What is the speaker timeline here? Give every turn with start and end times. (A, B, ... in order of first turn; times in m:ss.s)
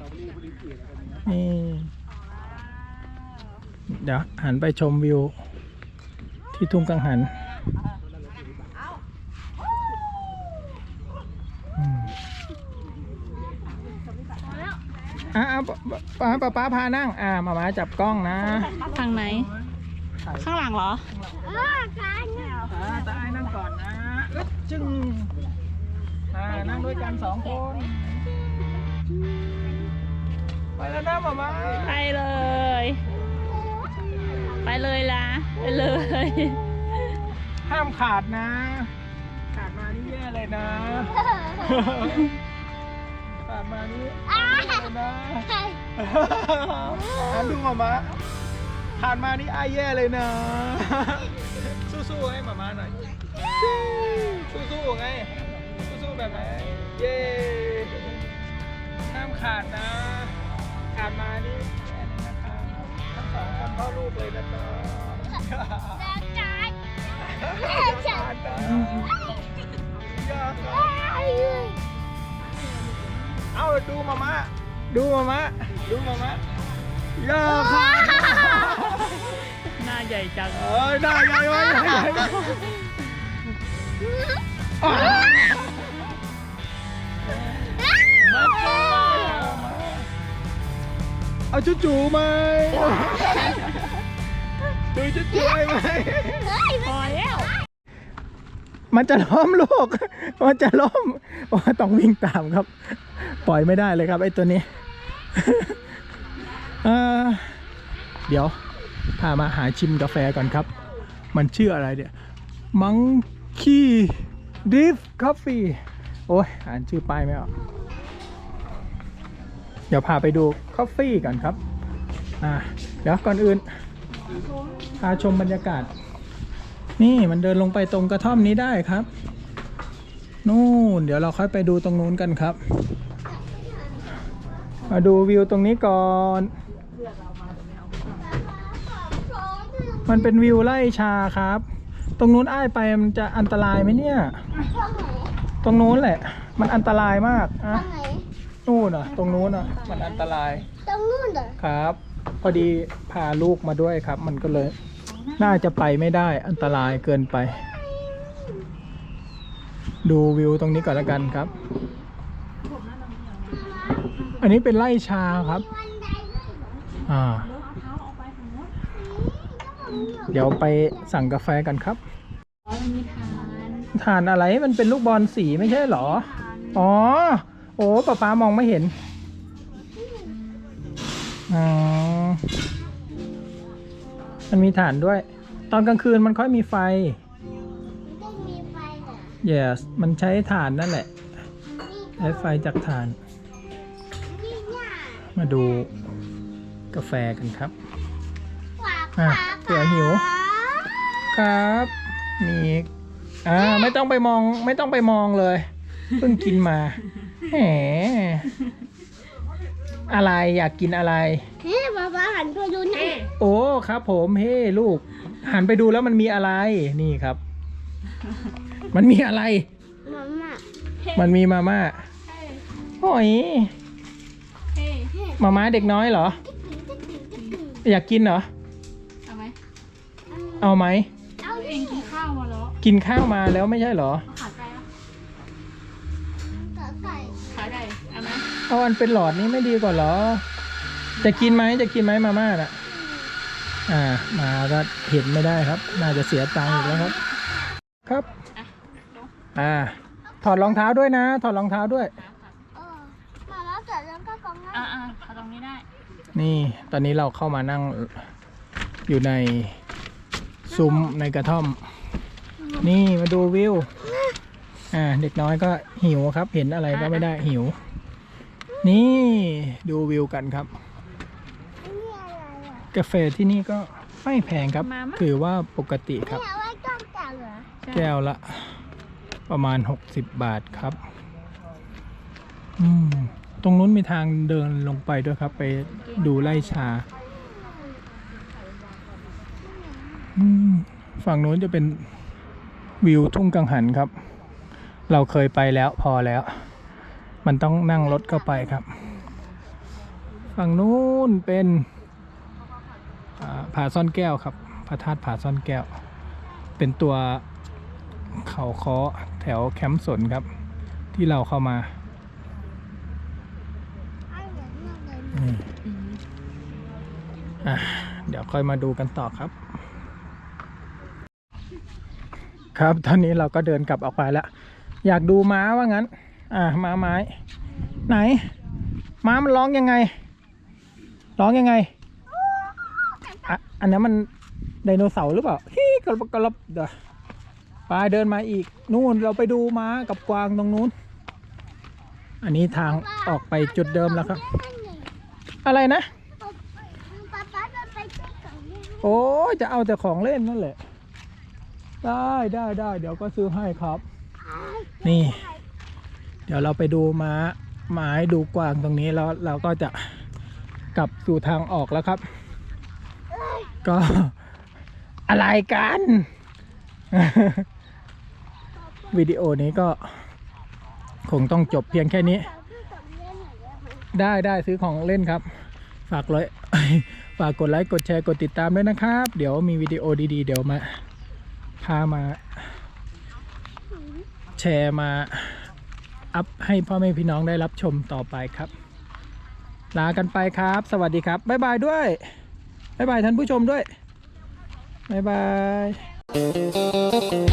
0:01.2-0:01.9 A
0:02.4-0:03.5 B
0:03.9-0:05.3 A
0:06.5-0:07.3 A
0:11.8-0:12.1 A
0:15.3-0:18.8 A
0:18.7-0:19.5 B
0:20.2-0:20.5 A
0:20.4-0:21.1 B
0:21.1-0:21.6 A
0:21.6-0:22.7 C
0:22.3-0:22.8 B
0:22.7-0:25.3 A
0:26.3-0:28.2 A
0:30.8-0:32.0 A
0:31.8-0:33.0 B
0:33.7-0:34.4 C
0:34.6-0:37.1 B
0:37.6-0:38.9 A
0:39.5-0:42.4 A
0:41.2-0:41.9 C
0:43.4-0:48.2 A
0:44.3-0:44.9 C
0:45.5-0:45.8 C
0:47.0-0:47.4 C
0:49.0-0:53.0 A
0:53.5-0:58.2 A
0:59.1-1:00.4 A
1:00.9-1:06.1 A
1:06.0-1:06.8 C
1:07.2-1:09.1 A
1:07.4-1:08.2 C
1:08.9-1:09.4 C
1:10.1-1:11.5 A
1:10.7-1:11.8 C
1:13.5-1:16.4 A
1:17.2-1:19.3 A
1:18.0-1:18.7 C
1:19.3-1:20.6 B
1:20.5-1:22.7 A
1:24.8-1:25.8 A
1:28.2-1:29.5 B
1:29.0-1:30.1 A
1:31.5-1:33.7 A
1:34.9-1:36.5 A
1:36.3-1:36.9 C
1:36.8-1:37.5 B
1:38.9-1:44.6 A
1:45.3-1:45.8 A
1:46.6-1:47.6 A
1:48.3-1:48.6 A
1:49.2-1:50.7 A
1:51.3-1:52.1 A
1:52.7-1:57.5 A
1:59.9-2:01.6 A
2:02.4-2:03.6 A
2:05.0-2:05.9 A
2:07.0-2:09.1 A
2:10.4-2:12.6 A
2:14.9-2:16.5 A
2:18.1-2:20.2 C
2:20.0-2:21.6 A
2:22.2-2:24.4 A
2:24.7-2:25.3 C
2:25.6-2:27.9 A
2:27.7-2:28.2 C
2:28.6-2:30.7 A
2:29.0-2:30.3 B
2:30.8-2:31.6 C
2:31.6-2:34.7 A
2:35.1-2:35.7 B
2:35.4-2:37.6 A
2:37.9-2:38.5 C
2:40.0-2:41.5 A
2:41.5-2:42.0 C
2:42.6-2:44.5 B
2:43.7-2:44.1 C
2:44.4-2:45.6 A
2:45.6-2:46.9 C
2:47.0-2:47.5 A
2:47.4-2:48.8 B
2:48.9-2:50.7 C
2:49.9-2:50.2 B
2:50.3-2:52.0 A
2:52.7-2:53.9 B
2:53.9-2:58.9 A
2:55.5-2:56.8 B
3:00.0-3:00.3 C
3:01.5-3:02.4 A
3:04.5-3:07.2 A
3:08.0-3:09.3 C
3:09.4-3:11.1 A
3:11.8-3:12.3 C
3:12.2-3:13.2 A
3:14.3-3:15.4 C
3:15.3-3:15.9 A
3:16.9-3:17.7 A
3:18.8-3:21.0 C
3:19.2-3:20.3 A
3:21.3-3:22.9 A
3:23.4-3:28.5 A
3:30.1-3:31.4 A
3:31.6-3:33.2 C
3:32.9-3:33.3 B
3:33.4-3:37.4 A
3:38.9-3:39.6 A
3:40.0-3:40.6 C
3:41.1-3:42.0 A
3:42.3-3:42.6 B
3:43.0-3:43.7 A
3:44.7-3:45.1 B
3:45.1-3:45.5 C
3:45.4-3:46.4 A
3:46.4-3:47.8 C
3:47.8-3:48.5 A
3:49.2-3:49.5 B
3:50.3-3:50.7 C
3:50.6-3:51.1 A
3:51.4-3:52.8 B
3:51.4-3:52.1 C
3:52.8-3:54.2 A
3:54.3-3:54.9 B
3:56.5-3:57.6 C
3:57.5-3:58.5 B
3:58.7-4:00.4 A
4:01.2-4:02.8 A
4:01.2-4:01.6 B
4:03.9-4:07.2 A
4:06.6-4:07.2 B
4:08.5-4:09.3 B
4:09.5-4:12.1 A
4:12.1-4:12.5 B
4:12.8-4:14.9 C
4:14.7-4:15.8 B
4:16.3-4:18.2 A
4:19.1-4:19.8 A
4:20.7-4:21.8 A
4:20.7-4:21.1 B
4:22.8-4:23.9 A
4:24.9-4:27.8 A
4:26.9-4:27.3 B
4:28.8-4:30.7 A
4:31.8-4:32.9 C
4:32.9-4:36.4 A
4:34.8-4:35.2 B
4:36.3-4:37.8 C
4:37.8-4:38.1 B
4:37.9-4:38.8 A
4:39.5-4:41.0 A
4:42.8-4:47.0 A
4:49.7-4:50.3 C
4:50.4-4:52.0 A
4:53.0-4:54.1 A
4:55.1-4:56.5 A
4:57.4-4:58.9 A
5:00.5-5:01.9 A
5:03.4-5:05.9 A
5:06.8-5:07.4 A
5:08.4-5:10.4 A
5:11.1-5:11.9 A
5:14.3-5:15.3 C
5:15.3-5:15.7 A
5:15.9-5:16.2 B
5:17.6-5:19.5 A
5:22.7-5:24.5 A
5:25.0-5:27.3 A
5:28.1-5:28.4 A
5:29.2-5:30.1 A
5:31.4-5:31.9 A
5:32.4-5:33.4 C
5:33.5-5:34.3 A
5:34.8-5:36.9 A
5:37.9-5:40.9 A
5:42.4-5:44.4 A
5:43.0-5:45.1 C
5:45.6-5:46.1 A
5:46.4-5:49.2 C
5:49.0-5:50.8 A
5:52.0-5:54.0 A
5:54.4-5:55.4 C
5:55.0-5:55.4 A
5:56.5-6:00.0 A
6:00.9-6:02.2 A
6:03.3-6:03.7 C
6:03.8-6:04.3 A
6:05.3-6:06.3 A
6:07.1-6:07.7 A
6:09.1-6:10.1 A
6:11.2-6:12.5 A
6:12.3-6:14.1 C
6:14.1-6:15.4 A
6:16.1-6:20.9 A
6:21.8-6:22.6 A
6:24.0-6:24.2 C
6:24.6-6:25.6 A
6:26.3-6:28.7 A
6:29.9-6:32.2 A
6:33.0-6:33.8 A
6:35.1-6:36.0 A